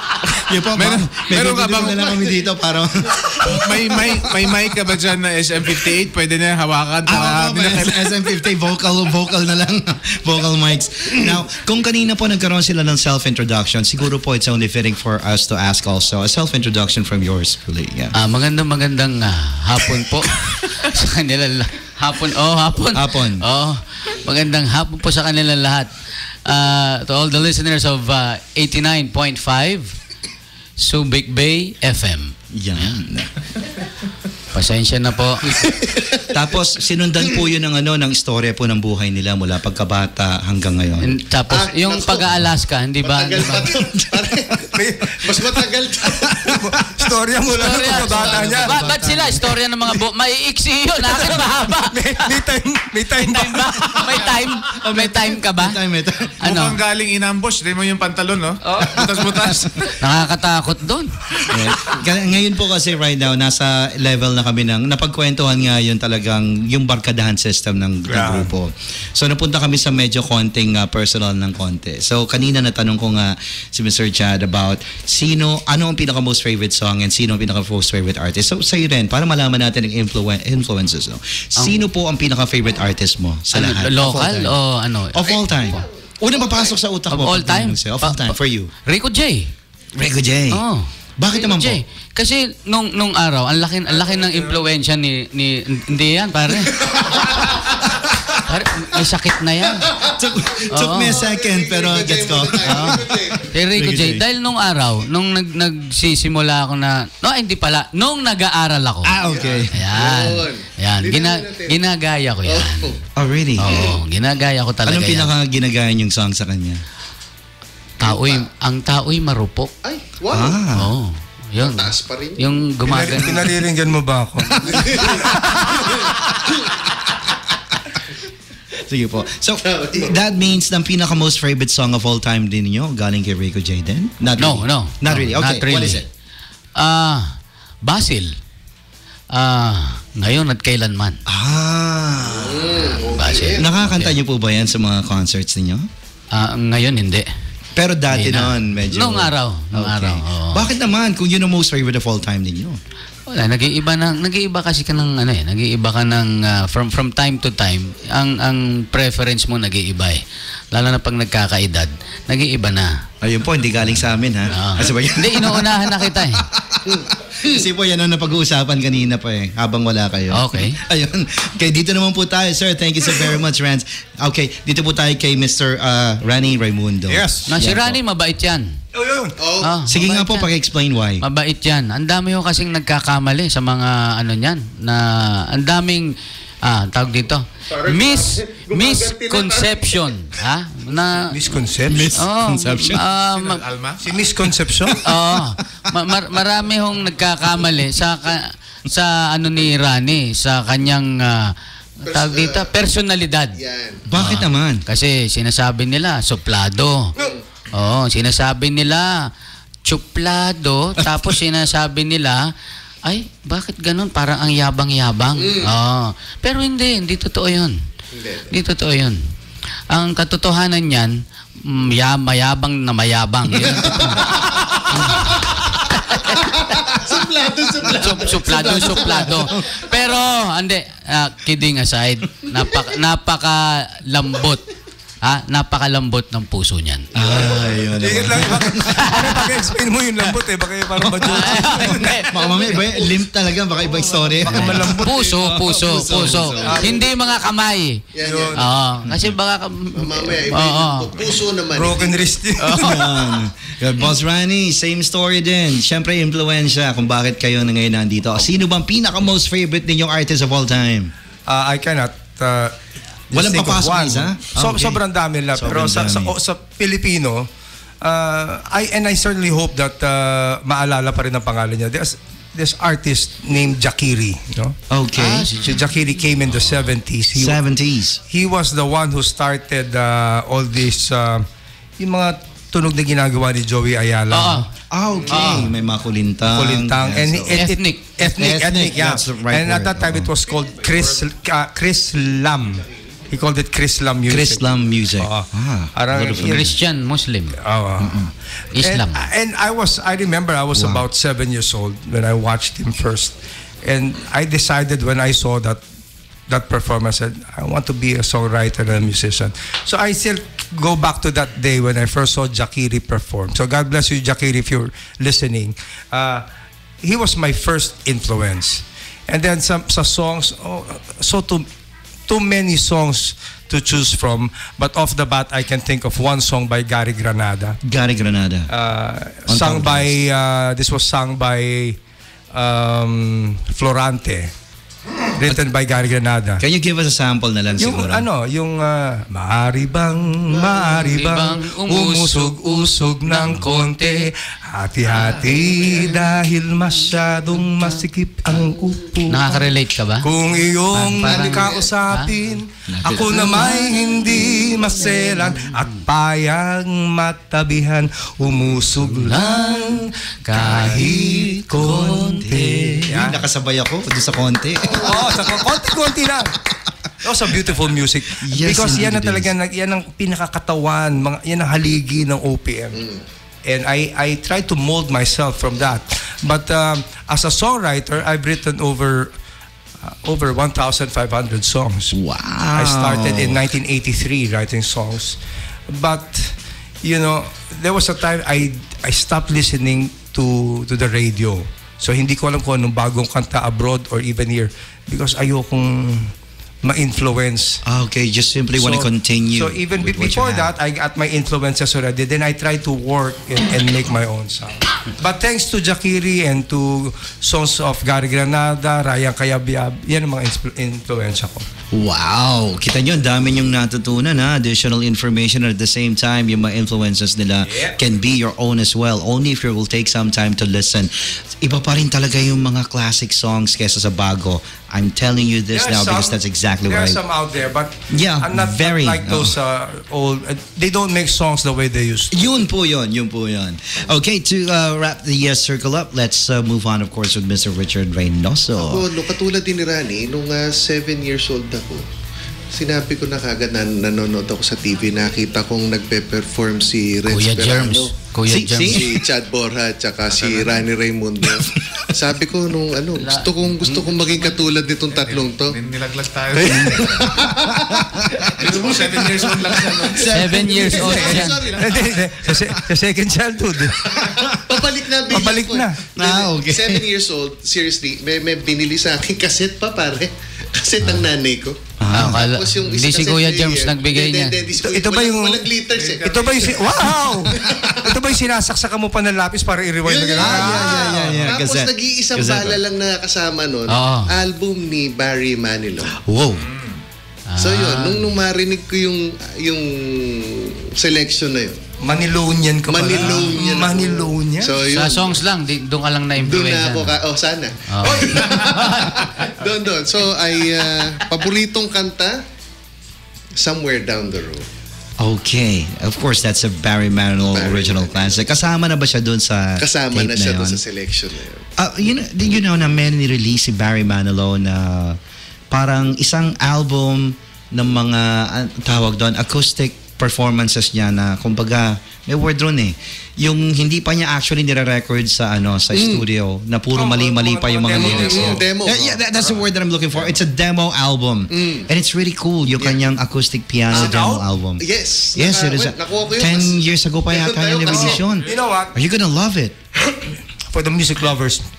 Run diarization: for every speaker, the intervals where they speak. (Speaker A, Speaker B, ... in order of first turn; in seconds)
Speaker A: 0.4-4.2, 7.1-18.1, 22.9-23.4, 32.5-33.3, 36.3-41.2, 43.7-44.3, 48.4-49.4, 54.7-56.3, 61.5-84.6, 85.1-88.7, 90.0-90.6, 91.2-91.8, 100.0-104.2, 109.0-109.7, 113.2-113.9, 114.8-116.8, 120.3-120.9, 128.8-136.1, 141.3-142.8, 143.6-145.9, 147.8-152.8, 163.2-178.0, 179.9-181.2, 191.9-193.0, 204.1-204.8, 237.2-239.5, 241.4-246.8, 252.7-261.1, 263.3-265.0, 265.5-266.3, 274.9-275.5, 277.4-278.2, 284.9-287.6, 288.2-290.3, 294.3-296.8, 298.0-298.3, 300.8-301.0, 327.9-328.7, 329.5-330.1, 336.6-338.3, 352.9-353.7, 360.6-365.2, 368.4-369.5, 382.1-383.6, 397.9-400.7, 411.9-427.2, 428.1-429.6, 432.3-439.1, 448.5-449.2, 460.1-461.0, 466.1-467.1, 472.0-472.5, 480.4-482.8, 486.1-486.7, 505.2-510.8, 511.8-515.2, 515.7-534.8, 535.4-539.8
Speaker B: 0.8-2.2, 3.4-8.2, 56.4-60.0, 193.3-194.1, 450.3-450.9, 455.1-457.4, 458.6-460.3, 461.5-462.0, 475.9-476.9, 486.6-487.0
Speaker C: 18.1-25.9, 26.5-29.9, 30.8-33.0, 34.5-35.5, 41.0-43.6, 47.5-52.2, 53.2-55.8, 56.4-56.8, 58.6-59.0, 60.0-61.5, 83.5-85.2, 87.1-89.5, 90.5-96.8, 98.5-99.9, 100.7-101.2, 103.5-109.2, 109.7-112.9, 113.6-115.3, 118.0-119.7, 120.8-123.5, 134.4-136.0, 136.8-138.3, 139.3-141.2, 143.1-144.2, 146.3-147.3, 148.1-150.7, 153.3-160.2, 160.7-163.0, 164.5-166.4, 170.3-170.8, 177.5-178.8, 179.6-180.4, 181.2-191.3, 192.2-193.6, 195.0-201.5, 202.1-203.6, 204.2-207.1, 207.7-209.3, 209.9-212.5, 213.1-217.8, 218.5-219.2, 219.9-226.6, 227.9-234.7, 235.2-237.1, 238.9-239.4, 241.3-242.2, 244.8-248.0, 248.6-251.1, 275.2-275.6, 284.3-284.7, 285.3-285.7, 287.5-288.0, 296.4-297.6, 298.8-299.2, 341.0-344.3, 349.3-350.3, 350.9-352.3, 353.3-354.1, 359.2-363.0, 447.3-449.0, 453.2-454.5, 460.3-461.6, 472.1-474.6, 483.9-484.3, 487.5-488.3, 493.2-493.6, 494.9-497.2, 497.9-499.2
Speaker D: 35.6-36.3, 41.5-42.4, 43.0-46.4, 47.6-48.8, 85.2-86.8, 93.9-94.6, 96.8-97.5, 99.9-103.5, 109.2-111.8, 112.5-113.0, 113.7-114.0, 118.0-118.5, 119.8-120.6, 121.6-122.4, 124.6-126.9, 129.6-130.2, 142.2-143.7, 166.8-167.6, 179.4-180.3, 187.7-190.1, 202.0-202.7, 203.6-204.0, 215.4-215.8, 218.1-218.5, 223.6-225.6, 226.2-229.8, 237.2-237.8, 242.3-243.1, 246.6-247.4, 248.2-248.6, 249.9-252.3, 351.2-351.9, 438.8-442.1, 442.7-448.1, 448.9-455.8, 456.6-462.1, 464.7-476.9, 477.5-478.1, 480.0-486.1, 487.6-491.8, 492.9-495.4, 496.4-502.4, 503.6-504.7, 507.4-508.4, 509.8-511.7, 525.9-526.2, 528.0-529.2, 531.5-531.9, 533.9-534.2, 534.8-538.3
Speaker E: 44.8-45.2, 46.5-48.8, 51.2-54.2, 68.1-68.5, 122.8-125.7, 177.1-177.5, 178.9-179.3, 191.3-192.2, 194.0-195.0, 237.9-242.2, 244.3-245.5, 246.7-246.9, 248.2-248.7, 251.7-253.1, 261.5-262.7, 263.3-267.5, 268.0-274.8, 275.6-277.6, 278.3-281.5, 282.0-284.6, 286.5-294.6, 295.2-296.8, 297.6-305.8, 306.5-316.5, 317.0-321.7, 322.3-327.8, 328.7-332.0, 332.5-334.5, 335.4-336.6, 337.8-349.7, 350.2-363.4, 365.0-366.5, 367.2-373.0, 373.7-379.3, 380.0-382.2, 382.7-385.4, 385.9-396.3, 396.8-397.8, 398.8-411.6, 425.7-432.4, 461.0-464.1, 465.3-466.1, 474.8-475.7, 476.2-481.2, 492.0-494.7, 526.9-528.6, 533.9-534.4, 537.9-538.9, 540.1-541.6